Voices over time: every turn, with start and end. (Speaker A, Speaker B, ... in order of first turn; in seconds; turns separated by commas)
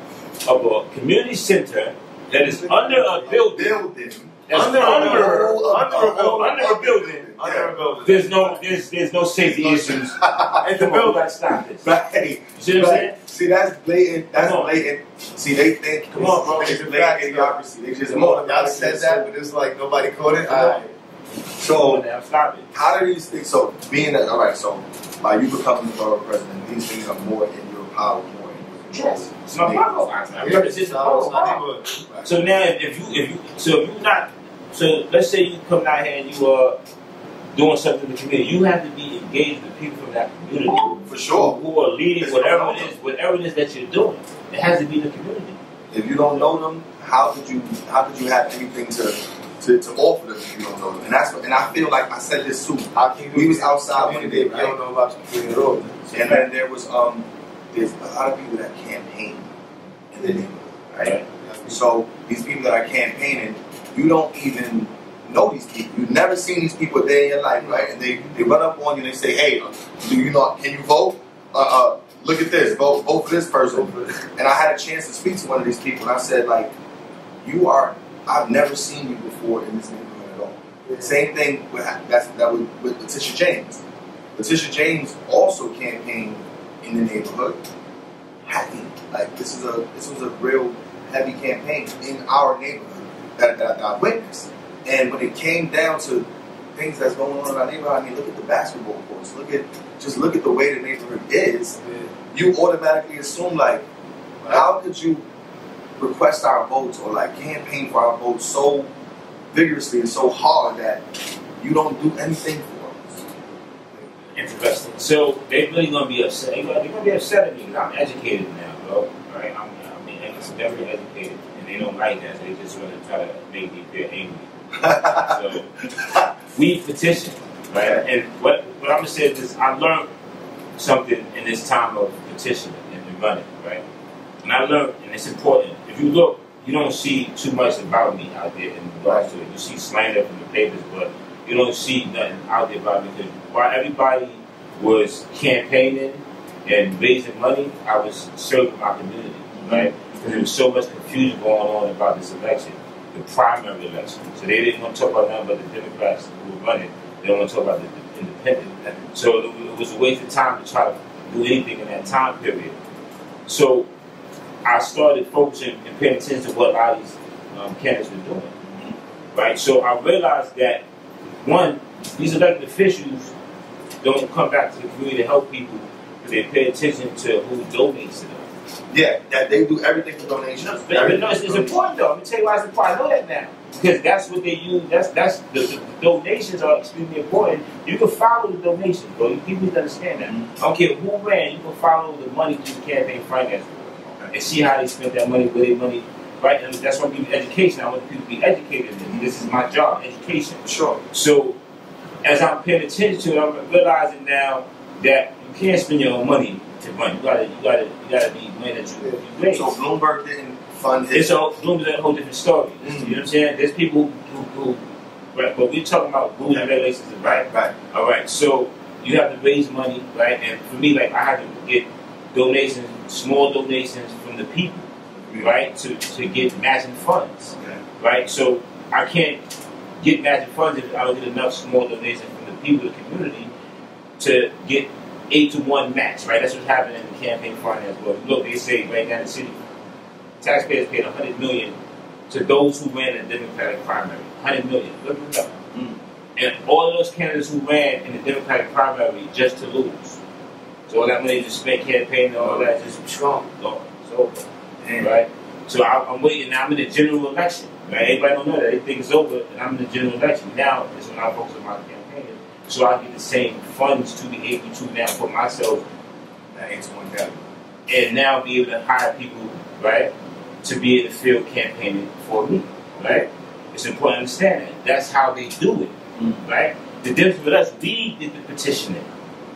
Speaker A: 0.5-3.8, Speaker B: 2.3-7.8, Speaker A: 4.5-7.4, Speaker C: 4.5-8.5, Speaker A: 8.0-11.9, Speaker B: 9.6-10.6, Speaker C: 10.6-11.3, Speaker B: 11.8-19.3, Speaker A: 12.6-13.1, Speaker A: 14.3-14.8, Speaker A: 16.1-16.8, Speaker C: 16.5-17.5, Speaker C: 18.1-20.9, Speaker B: 20.5-20.8, Speaker B: 21.6-22.0, Speaker A: 21.7-22.7, Speaker B: 22.7-30.7, Speaker A: 28.9-31.6, Speaker C: 30.4-32.2, Speaker A: 32.2-36.8, Speaker A: 37.5-45.6, Speaker B: 41.0-41.6, Speaker B: 42.2-42.9, Speaker B: 45.9-54.8, Speaker C: 52.9-56.5, Speaker B: 56.1-59.5, Speaker B: 60.1-61.1, Speaker C: 61.4-61.8, Speaker B: 61.6-76.7, Speaker C: 67.6-67.9, Speaker C: 73.7-74.2, Speaker B: 77.4-83.8, Speaker C: 80.8-81.2, Speaker B: 84.3-87.6, Speaker B: 88.5-101.8, Speaker C: 101.8-102.1, Speaker B: 102.3-103.8, Speaker B: 104.5-105.2, Speaker B: 106.0-108.9, Speaker B: 109.5-111.0, Speaker B: 111.6-113.2, Speaker A: 114.3-124.5, Speaker B: 124.8-126.3, Speaker A: 125.0-125.7, Speaker A: 126.5-130.1, Speaker B: 127.8-128.0, Speaker A: 130.8-133.8, Speaker A: 134.4-162.8, Speaker B: 149.6-150.4, Speaker A: 163.5-163.9, Speaker A: 164.6-168.5, Speaker B: 168.7-168.9, Speaker A: 169.3-170.8, Speaker A: 171.4-173.3, Speaker A: 174.0-178.5, Speaker B: 178.9-181.8, Speaker A: 180.6-201.6, Speaker B: 190.2-190.5, Speaker B: 199.1-199.4, Speaker B: 200.6-201.0, Speaker A: 202.2-209.8, Speaker B: 209.5-211.3, Speaker A: 211.1-214.8, Speaker B: 212.8-213.2, Speaker A: 215.3-224.9, Speaker B: 216.4-216.7, Speaker B: 217.2-217.7, Speaker B: 225.2-225.6, Speaker A: 225.4-229.4, Speaker A: 230.0-233.5, Speaker A: 234.2-239.6, Speaker A: 240.4-241.7, Speaker A: 242.3-245.5, Speaker A: 246.3-250.2, Speaker A: 250.9-254.4, Speaker C: 252.3-253.4, Speaker B: 254.8-255.1, Speaker A: 255.0-265.8, Speaker B: 266.5-267.4, Speaker A: 267.9-270.1, Speaker A: 270.6-275.9, Speaker A: 276.4-279.1